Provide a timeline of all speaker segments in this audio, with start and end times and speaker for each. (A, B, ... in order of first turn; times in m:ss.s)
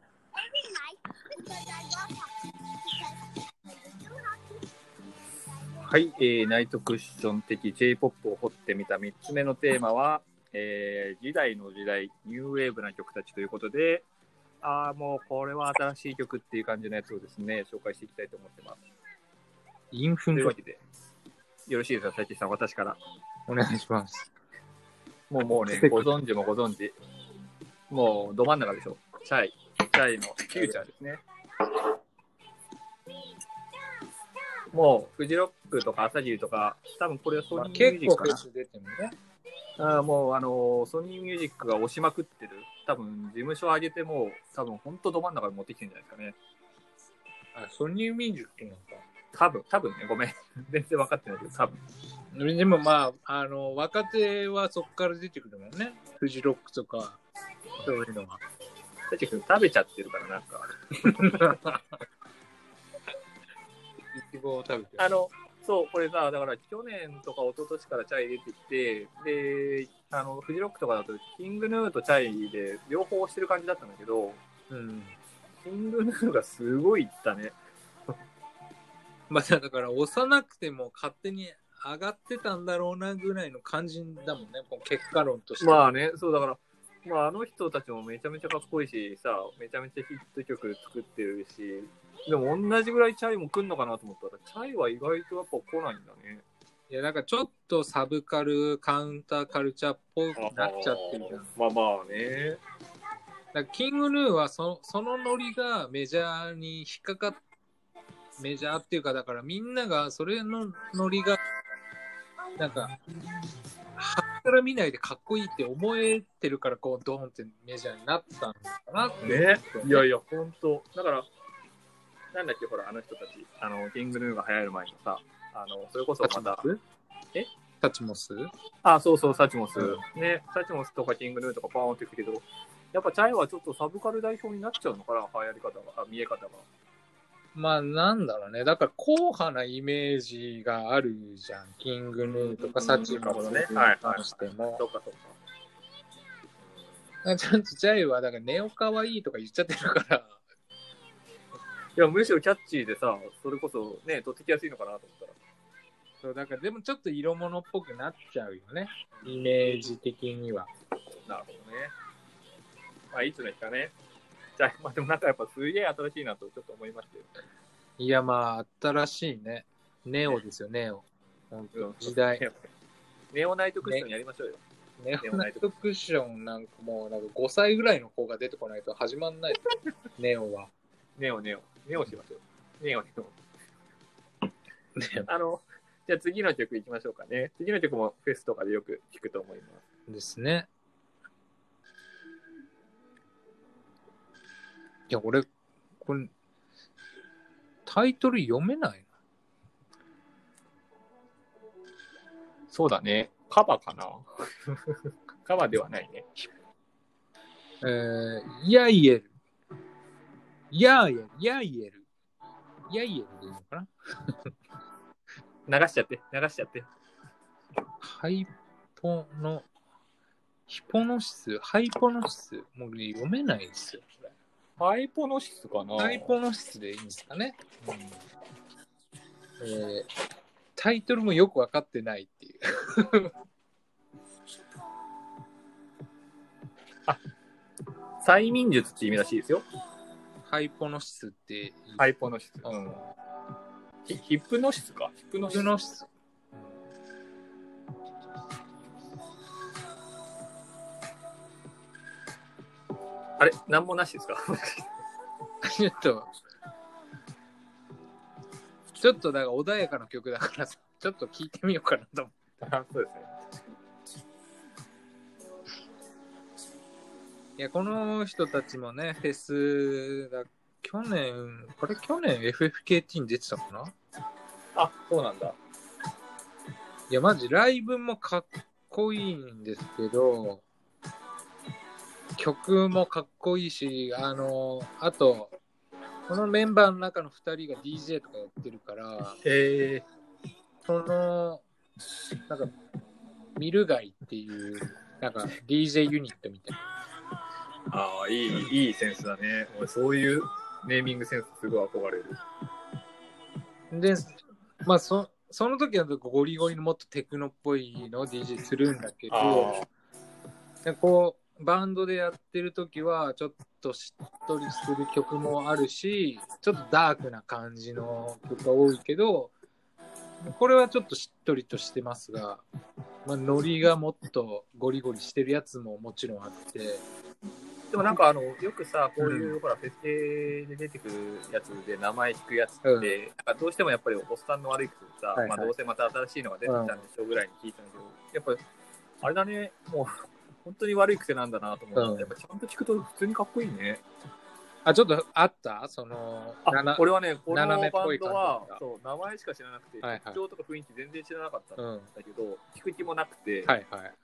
0:00.3-0:04.7 A
0:05.8-0:14.0 B
0:14.6-0:18.8 B
0:19.9-0:20.5 C
0:20.3-0:20.8 B
0:21.6-0:23.0 B
0:23.5-0:24.3 C
0:25.3-0:27.0 B
0:25.7-0:26.1 C
0:27.9-0:31.2 B
0:34.7-0:38.4 B
0:37.5-0:39.1 C
0:39.8-0:46.4 B
0:47.5-0:49.0 C
0:49.3-0:51.8 B
0:52.3-0:57.2 C
0:57.8-0:58.4 C
0:59.1-1:01.6 B
1:01.0-1:01.9 C
1:04.1-1:05.1 C
1:05.0-1:14.4 B
1:14.7-1:15.2 C
1:15.6-1:17.6 B
1:19.3-1:25.9 C
1:25.6-1:36.4 B
1:36.9-1:41.5 C
1:40.4-1:42.6 B
1:43.5-1:47.4 C
1:48.4-1:51.4 C
1:52.6-1:52.9 C
1:54.0-2:00.0 C
1:59.2-2:01.3 B
2:02.3-2:06.6 B
2:06.2-2:06.8 C
2:07.8-2:08.5 C
2:08.8-2:16.6 B
2:17.5-2:24.8 C
2:22.3-2:25.4 B
2:27.2-2:30.4 C
2:31.9-2:35.4 B
2:36.2-2:40.7 C
2:39.2-2:39.9 B
2:41.1-2:41.9 B
2:43.1-2:43.9 B
2:44.6-2:47.3 B
2:48.0-2:52.4 C
2:51.7-2:52.6 B
2:53.3-2:54.6 B
2:55.0-2:59.6 C
2:55.2-2:55.6 B
3:00.2-3:00.7 C
3:01.2-3:03.4 B
3:05.0-3:05.3 C
3:05.3-3:09.8 B
3:10.1-3:10.7 C
3:15.1-3:15.5 C
3:16.0-3:16.3 C
3:17.8-3:19.1 C
3:22.7-3:26.4 B
3:27.8-3:29.3 C
3:30.7-3:32.0 C
3:32.9-3:34.4 C
3:35.7-3:36.9 B
3:38.0-3:39.6 C
3:40.7-3:44.2 C
3:44.8-3:46.4 B
3:46.0-3:47.6 C
3:47.8-3:48.2 B
3:49.6-3:50.1 C
3:50.8-3:53.3 C
3:58.2-3:59.6 B
4:00.4-4:02.0 C
4:02.0-4:03.0 B
4:04.0-4:05.7 B
4:05.5-4:06.1 C
4:13.4-4:15.0 B
4:15.6-4:16.3 C
4:19.0-4:22.4 C
4:22.6-4:23.4 B
4:27.6-4:33.9 C
4:34.7-4:35.6 B
4:37.1-4:40.6 C
4:42.4-4:45.6 C
4:46.3-4:49.4 C
4:49.4-4:50.0 B
4:50.8-4:51.6 C
4:52.5-4:52.7 C
4:53.6-4:56.8 C
4:57.9-5:02.4 B
5:03.9-5:09.8 C
5:09.3-5:09.9 B
5:10.8-5:19.5 C
5:20.4-5:22.6 C
5:23.2-5:27.0 C
5:27.9-5:38.6 B
5:29.2-5:29.5 C
5:32.8-5:33.2 C
5:35.3-5:35.7 C
5:36.6-5:37.0 C
5:39.2-5:44.0 B
5:41.9-5:42.3 C
5:44.8-5:48.8 C
5:46.6-5:53.7 B
5:50.0-5:50.4 C
5:51.8-5:52.1 C
5:53.6-5:54.2 C